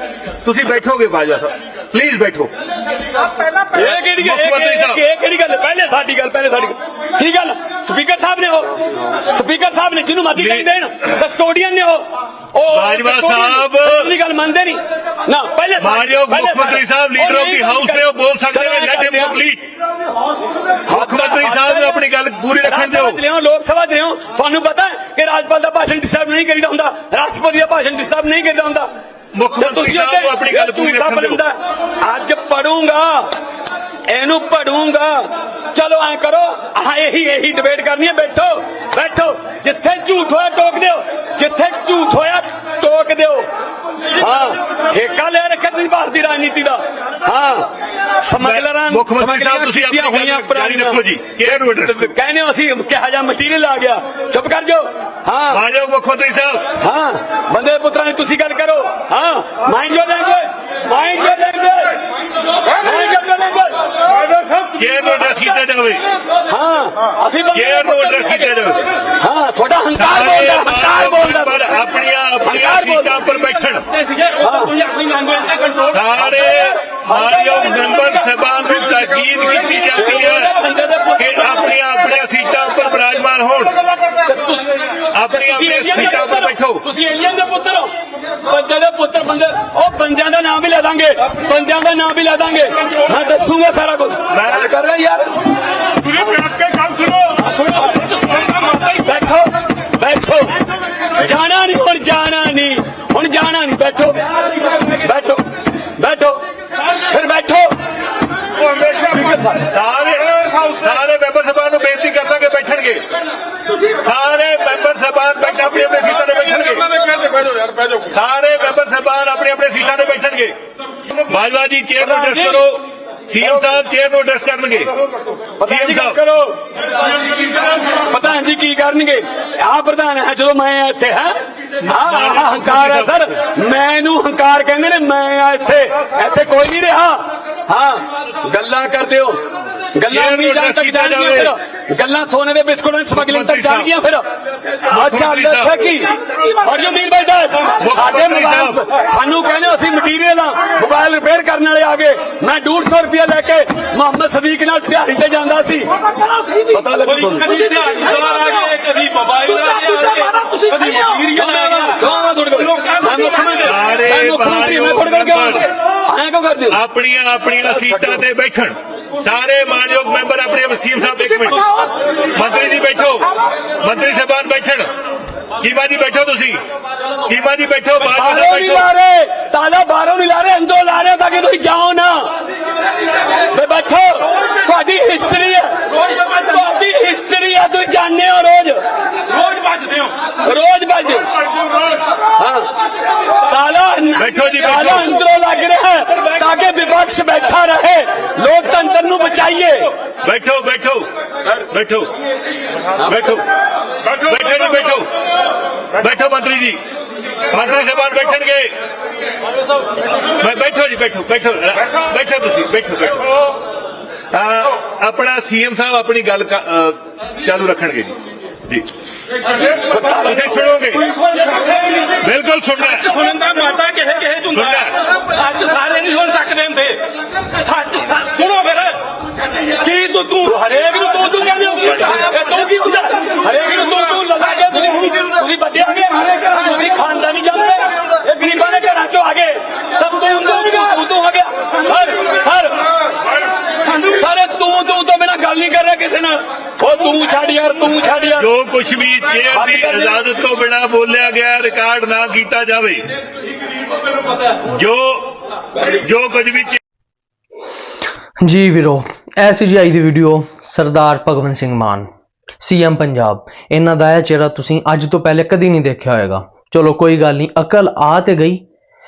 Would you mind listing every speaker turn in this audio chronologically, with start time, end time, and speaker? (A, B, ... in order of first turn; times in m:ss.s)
0:00.4-0:02.5 A
0:03.7-0:19.4 B
0:03.8-0:05.0 A
0:10.4-0:10.7 A
0:12.7-0:14.1 A
0:15.8-0:19.6 A
0:20.9-0:28.9 B
0:20.9-0:23.2 A
0:29.3-0:31.4 A
0:29.6-0:33.3 B
0:34.1-0:43.5 B
0:44.1-0:55.6 B
0:48.4-0:52.1 A
0:55.5-0:56.7 A
0:56.8-1:02.0 B
1:02.7-1:04.0 B
1:04.7-1:06.0 A
1:06.5-1:08.5 B
1:07.5-1:08.9 A
1:09.2-1:11.8 B
1:10.0-1:13.9 A
1:12.4-1:13.2 B
1:14.2-1:15.9 C
1:14.4-1:14.8 B
1:15.9-1:20.6 A
1:16.9-1:17.3 B
1:19.9-1:21.8 B
1:21.2-1:23.8 A
1:24.2-1:35.3 B
1:25.1-1:26.8 A
1:34.3-1:34.7 A
1:36.0-1:36.8 B
1:37.6-1:40.6 B
1:41.2-1:46.4 B
1:47.1-1:47.8 B
1:48.9-1:49.6 B
1:49.7-1:53.1 A
1:54.0-1:57.0 A
1:58.0-2:00.6 A
2:01.3-2:04.9 A
2:02.0-2:02.6 B
2:05.6-2:06.6 B
2:05.6-2:06.2 A
2:08.0-2:19.4 B
2:11.8-2:13.3 A
2:19.9-2:24.3 B
2:20.1-2:21.5 A
2:23.1-2:23.9 A
2:24.8-2:37.7 B
2:24.9-2:25.7 A
2:27.8-2:28.8 A
2:37.3-2:41.8 C
2:39.5-2:46.8 B
2:42.8-2:43.5 C
2:43.6-2:45.6 A
2:46.7-2:54.9 A
2:47.6-2:48.2 B
2:55.6-2:56.6 A
2:57.3-2:58.9 A
2:58.0-3:02.3 B
3:03.5-3:08.8 B
3:09.6-3:10.0 C
3:09.8-3:11.3 B
3:12.3-3:12.7 B
3:13.3-3:19.9 B
3:14.2-3:15.2 A
3:20.2-3:22.1 A
3:23.0-3:23.4 A
3:24.1-3:25.1 A
3:26.0-3:26.8 A
3:27.5-3:28.7 A
3:30.4-3:33.3 A
3:34.3-3:38.9 A
3:39.9-3:40.5 B
3:40.1-3:41.1 A
3:42.2-3:43.2 A
3:43.1-3:44.6 C
3:44.5-3:45.0 A
3:45.2-3:49.0 C
3:49.7-4:02.8 B
4:03.9-4:08.5 B
4:08.4-4:13.1 A
4:09.7-4:10.0 B
4:14.7-4:15.3 A
4:15.8-4:16.8 A
4:18.4-4:22.1 D
4:22.6-4:28.6 D